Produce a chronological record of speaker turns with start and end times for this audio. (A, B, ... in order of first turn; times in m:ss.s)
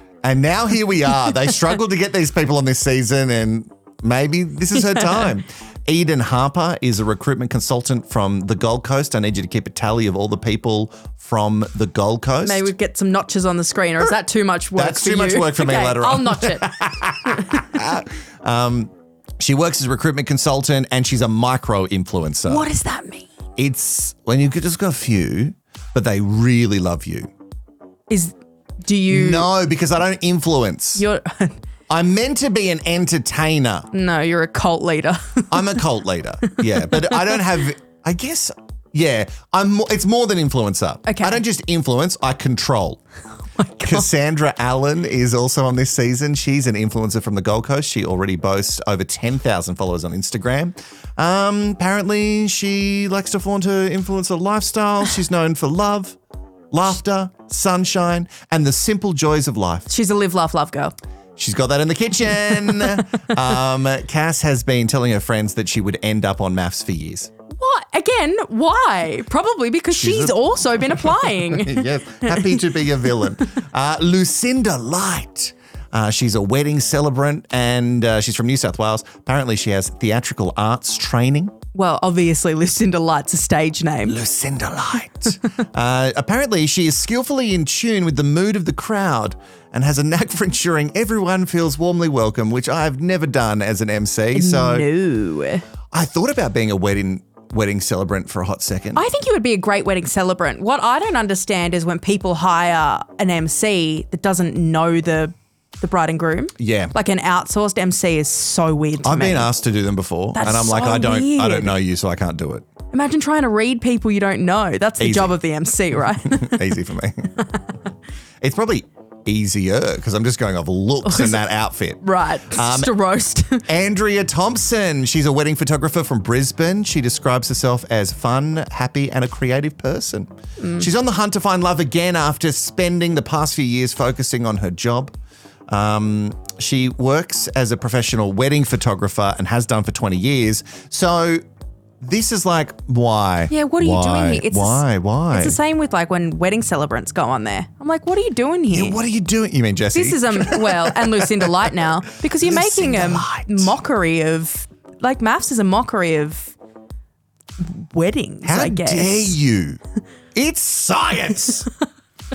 0:00.2-0:12.7 A
0:12.4-0:16.7 B
0:14.8-0:22.7 A
0:22.4-0:23.3 B
0:23.6-0:27.3 A
0:28.1-0:29.5 B
0:29.1-0:31.0 A
0:31.0-0:31.6 B
0:31.9-0:33.9 A
0:33.9-0:35.9 B
0:35.5-0:43.0 A
0:36.4-0:37.4 B
0:41.0-0:41.4 B
0:43.6-0:44.0 B
0:43.8-0:56.2 A
0:56.7-0:59.9 A
0:59.9-1:00.9 B
1:01.4-1:07.3 A
1:07.5-1:12.8 B
1:09.9-1:10.4 A
1:11.4-1:21.5 A
1:21.7-1:24.2 B
1:24.0-1:34.8 A
1:34.3-1:35.6 B
1:35.9-1:39.0 A
1:38.9-1:49.5 B
1:46.6-1:46.9 A
1:49.0-1:52.7 A
1:50.3-1:51.7 B
1:52.9-1:56.6 B
1:55.0-1:55.3 A
1:56.3-1:57.4 A
1:58.4-2:02.9 A
2:01.0-2:01.4 B
2:02.0-2:03.6 B
2:03.7-2:15.1 A
2:10.6-2:10.9 B
2:15.7-2:21.4 A
2:22.0-2:25.6 A
2:23.5-2:29.0 B
2:28.7-2:31.5 A
2:29.9-2:36.5 B
2:32.3-2:33.7 A
2:37.6-2:39.4 B
2:38.4-2:39.8 A
2:40.3-2:41.7 A